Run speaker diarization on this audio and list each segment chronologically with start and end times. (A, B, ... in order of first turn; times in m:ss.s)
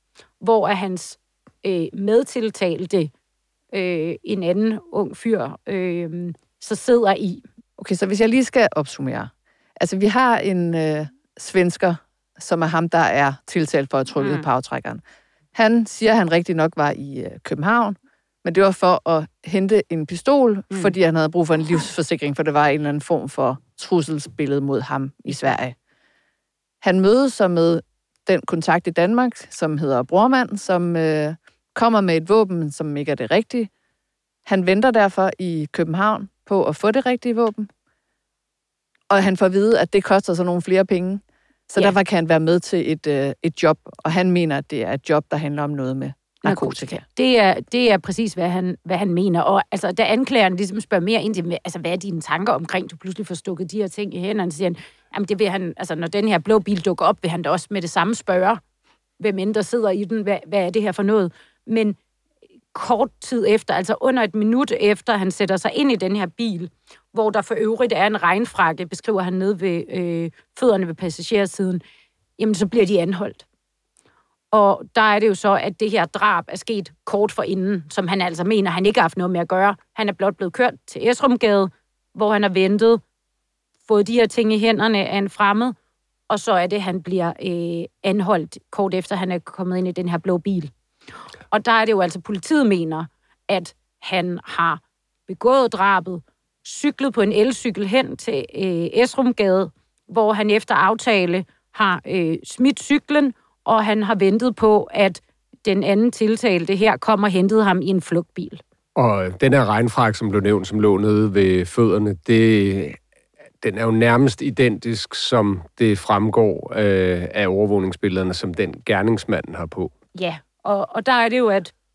0:00.4-0:03.1 A
0:03.7-0:07.4 A
0:07.8-0:15.0 B
0:14.2-0:14.4 A
0:15.5-0:25.8 B
0:26.8-0:33.7 B
0:34.5-0:37.7 B
0:39.1-0:47.0 B
0:46.4-0:58.6 A
0:59.2-1:02.0 A
1:02.7-1:11.8 A
1:12.4-1:13.4 A
1:14.5-1:23.0 A
1:23.9-1:25.8 A
1:26.3-1:30.7 A
1:31.5-1:48.6 A
1:49.0-1:53.0 C
1:53.6-1:59.9 C
2:00.2-2:01.7 A